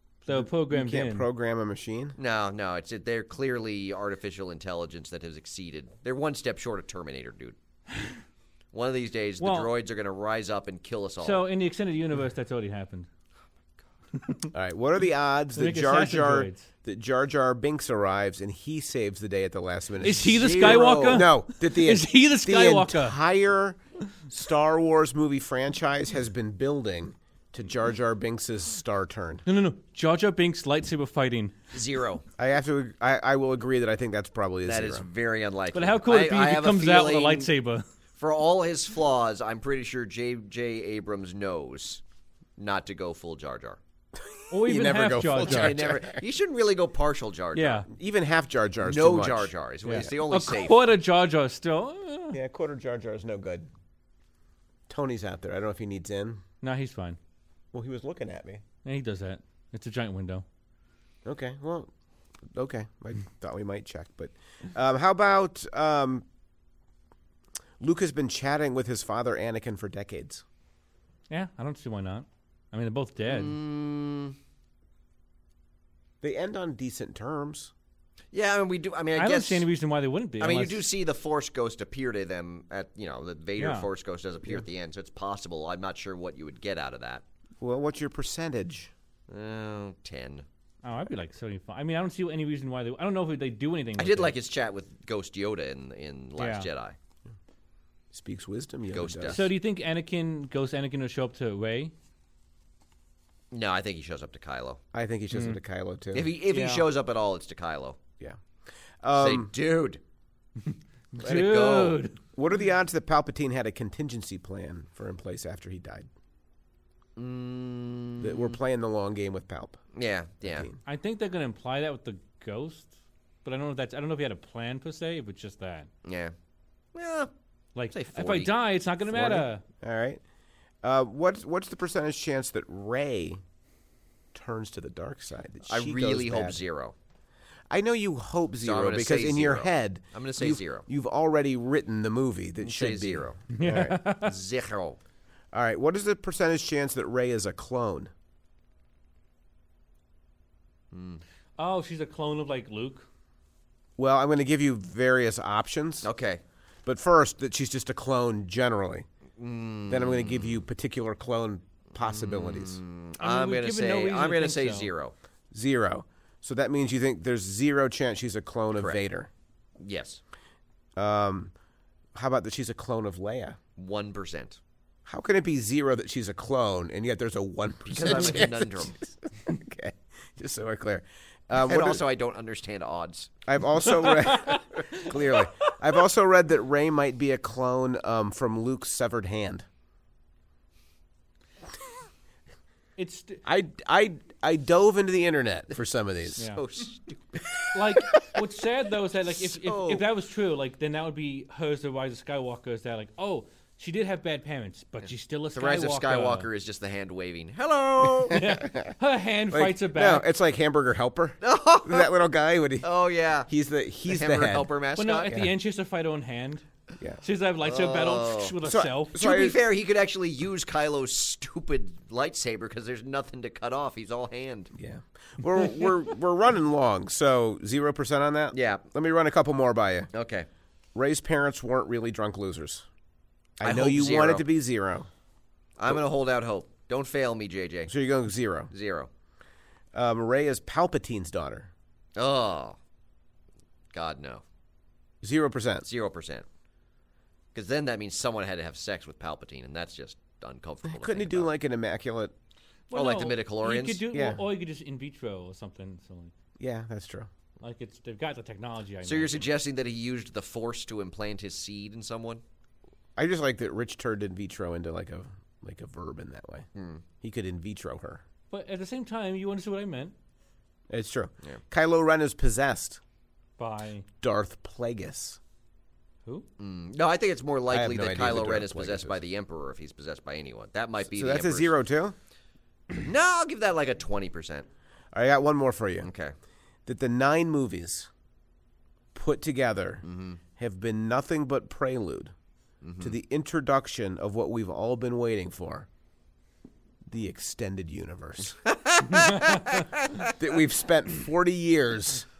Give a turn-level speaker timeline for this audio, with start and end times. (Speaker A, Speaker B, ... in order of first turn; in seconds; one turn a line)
Speaker A: 0.3-1.3
Speaker B: 0.3-2.2
Speaker C: 2.2-7.6
Speaker C: 8.7-11.4
Speaker A: 9.4-9.7
Speaker A: 11.2-13.1
Speaker A: 14.2-14.5
Speaker B: 14.5-29.4
Speaker A: 15.6-16.7
Speaker A: 20.0-23.2
Speaker C: 20.3-21.3
Speaker A: 29.5-31.5
Speaker C: 31.7-32.2
Speaker B: 32.4-35.0
Speaker C: 34.7-37.5
Speaker A: 35.7-37.9
Speaker C: 38.2-42.0
Speaker C: 42.6-43.8
Speaker B: 44.2-46.2
Speaker A: 44.5-45.8
Speaker C: 45.5-47.9
Speaker A: 47.5-47.9
Speaker B: 47.9-49.5
Speaker C: 48.8-50.8
Speaker A: 49.9-52.4
Speaker B: 52.3-53.7
Speaker B: 54.9-56.4
Speaker A: 56.6-57.2
Speaker B: 57.7-58.6
Speaker A: 58.9-60.4
Speaker B: 61.2-61.9
Speaker B: 62.5-66.2
Speaker B: 67.8-70.4
Speaker A: 71.3-73.5
Speaker C: 73.3-74.4
Speaker B: 76.2-77.7
Speaker C: 78.3-79.7
Speaker A: 79.2-80.8
Speaker C: 80.4-87.2
Speaker A: 83.6-83.9
Speaker B: 87.6-88.9
Speaker C: 89.3-90.5
Speaker A: 90.8-94.3
Speaker C: 94.0-97.0
Speaker A: 96.4-96.7
Speaker B: 98.1-99.4
Speaker C: 98.9-99.5
Speaker A: 99.3-101.9
Speaker C: 103.5-104.8
Speaker B: 104.9-106.3
Speaker A: 105.3-105.6
Speaker C: 106.1-108.0
Speaker A: 106.5-106.9
Speaker B: 109.0-109.5
Speaker C: 109.2-110.0
Speaker A: 110.7-112.2
Speaker C: 111.2-112.0
Speaker B: 111.2-111.8
Speaker B: 112.3-116.1
Speaker C: 117.2-118.6
Speaker B: 118.2-119.8
Speaker C: 119.9-120.7
Speaker B: 120.4-120.8
Speaker A: 120.9-122.9
Speaker A: 123.5-125.9
Speaker C: 126.0-126.3
Speaker C: 127.0-127.3
Speaker A: 127.8-129.6
Speaker C: 127.9-128.5
Speaker B: 129.1-130.2
Speaker B: 130.8-133.4
Speaker B: 134.3-136.6
Speaker C: 135.7-136.9
Speaker B: 137.7-144.0
Speaker C: 138.6-140.9
Speaker C: 142.6-143.4
Speaker A: 143.5-144.4
Speaker C: 144.1-145.0
Speaker B: 145.5-148.1
Speaker C: 150.9-151.2
Speaker A: 151.6-153.1
Speaker B: 154.0-156.1
Speaker C: 156.0-156.4
Speaker B: 156.8-159.1
Speaker C: 159.4-160.6
Speaker B: 159.9-162.8
Speaker C: 162.0-165.1
Speaker A: 163.2-164.9
Speaker B: 165.5-169.3
Speaker C: 169.8-170.2
Speaker B: 171.0-171.5
Speaker B: 172.1-173.6
Speaker C: 173.8-174.6
Speaker B: 175.1-182.0
Speaker C: 177.9-179.0
Speaker C: 181.6-183.4
Speaker B: 183.5-189.7
Speaker A: 184.2-185.4
Speaker A: 193.0-193.4
Speaker B: 193.5-196.4
Speaker C: 196.4-197.6
Speaker A: 197.7-206.5
Speaker B: 198.1-198.4
Speaker C: 199.4-200.1
Speaker C: 205.5-208.4
Speaker B: 208.3-209.0
Speaker A: 208.3-210.3
Speaker B: 209.5-212.9
Speaker C: 211.4-212.1
Speaker C: 212.8-213.5
Speaker B: 213.5-214.7
Speaker C: 214.1-215.4
Speaker A: 215.0-216.7
Speaker A: 217.2-219.2
Speaker C: 217.6-218.6
Speaker B: 218.6-219.6
Speaker C: 219.2-224.7
Speaker B: 224.8-230.1
Speaker C: 228.5-228.9
Speaker C: 230.1-230.5
Speaker B: 230.9-232.9
Speaker B: 233.6-235.1
Speaker C: 233.6-234.5
Speaker C: 235.8-237.9
Speaker B: 237.9-238.7
Speaker C: 238.7-239.1
Speaker B: 239.9-241.7
Speaker C: 242.2-242.8
Speaker C: 243.9-244.4
Speaker B: 245.2-245.9
Speaker C: 245.8-246.5
Speaker C: 247.5-251.5
Speaker B: 250.8-252.3
Speaker A: 252.9-256.3
Speaker C: 252.9-254.1
Speaker B: 254.1-254.4
Speaker B: 256.6-257.3
Speaker A: 257.6-259.5
Speaker C: 259.0-262.4
Speaker B: 263.2-266.7
Speaker C: 266.8-267.0
Speaker B: 267.2-268.2
Speaker A: 268.5-270.1
Speaker B: 270.9-273.0
Speaker A: 273.6-274.1
Speaker B: 274.2-275.4
Speaker C: 276.6-281.7
Speaker B: 277.7-279.2
Speaker B: 281.1-282.2
Speaker C: 283.0-284.7
Speaker B: 285.1-286.1
Speaker C: 286.0-286.3
Speaker B: 286.9-288.1
Speaker B: 289.1-290.0
Speaker C: 290.0-290.4
Speaker B: 290.6-292.3
Speaker C: 292.8-293.1
Speaker B: 293.0-295.9
Speaker B: 297.1-298.6
Speaker C: 298.6-300.4
Speaker B: 300.3-302.3